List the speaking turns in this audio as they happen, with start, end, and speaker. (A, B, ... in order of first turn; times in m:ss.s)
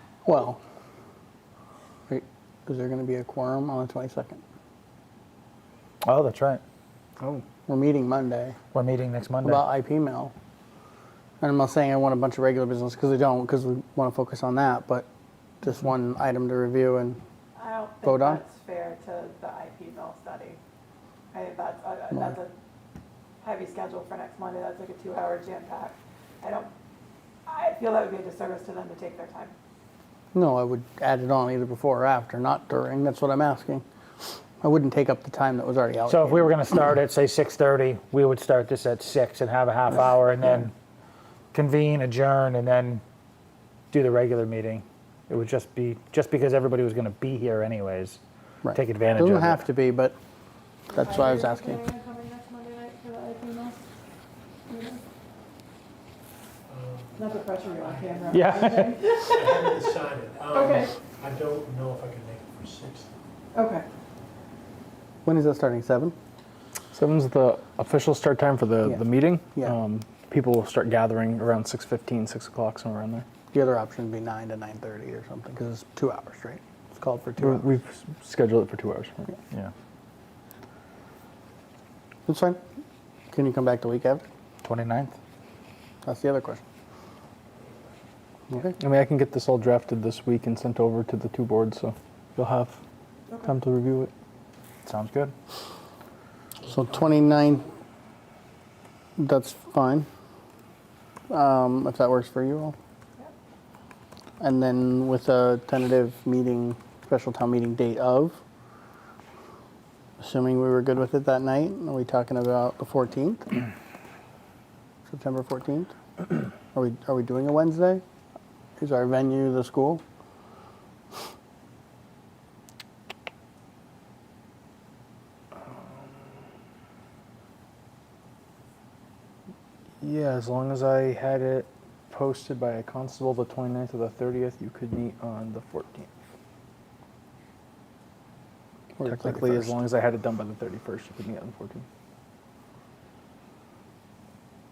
0:00.2-0:00.6 A
0:02.1-0:04.4 A
0:06.0-0:06.6 B
0:07.7-0:08.6 A
0:08.7-0:09.6 B
0:09.4-0:10.3 A
0:11.4-0:15.1 A
0:15.6-0:17.2 A
0:17.6-0:20.6 C
0:18.0-0:18.4 A
0:21.3-0:22.5 C
0:23.4-0:26.7 C
0:27.4-0:29.5 C
0:30.3-0:33.8 A
0:34.6-0:36.6 A
0:36.1-0:40.7 B
0:41.5-0:43.0 B
0:43.9-0:48.2 B
0:48.6-0:50.2 A
0:48.7-0:49.6 B
0:50.9-0:51.8 A
0:51.0-0:53.8 C
0:54.7-0:55.0 C
0:56.7-1:03.1 D
0:57.2-0:59.7 C
0:58.3-0:59.2 B
1:00.5-1:00.9 C
1:03.5-1:03.8 C
1:05.2-1:06.1 A
1:06.9-1:13.2 E
1:13.5-1:17.6 A
1:17.4-1:19.3 E
1:22.3-1:22.6 A
1:23.3-1:24.3 A
1:24.6-1:25.2 B
1:26.0-1:26.6 A
1:28.5-1:28.7 A
1:28.8-1:32.8 E
1:33.4-1:34.1 E
1:34.8-1:35.3 B
1:36.7-1:37.7 A
1:39.2-1:40.1 A
1:41.3-1:42.8 A
1:44.4-1:48.4 A
1:50.2-1:53.6 A
1:55.1-1:58.0 A
1:58.8-2:00.0 A
2:10.0-2:16.1 E
2:19.0-2:19.8 A
2:19.0-2:21.8 E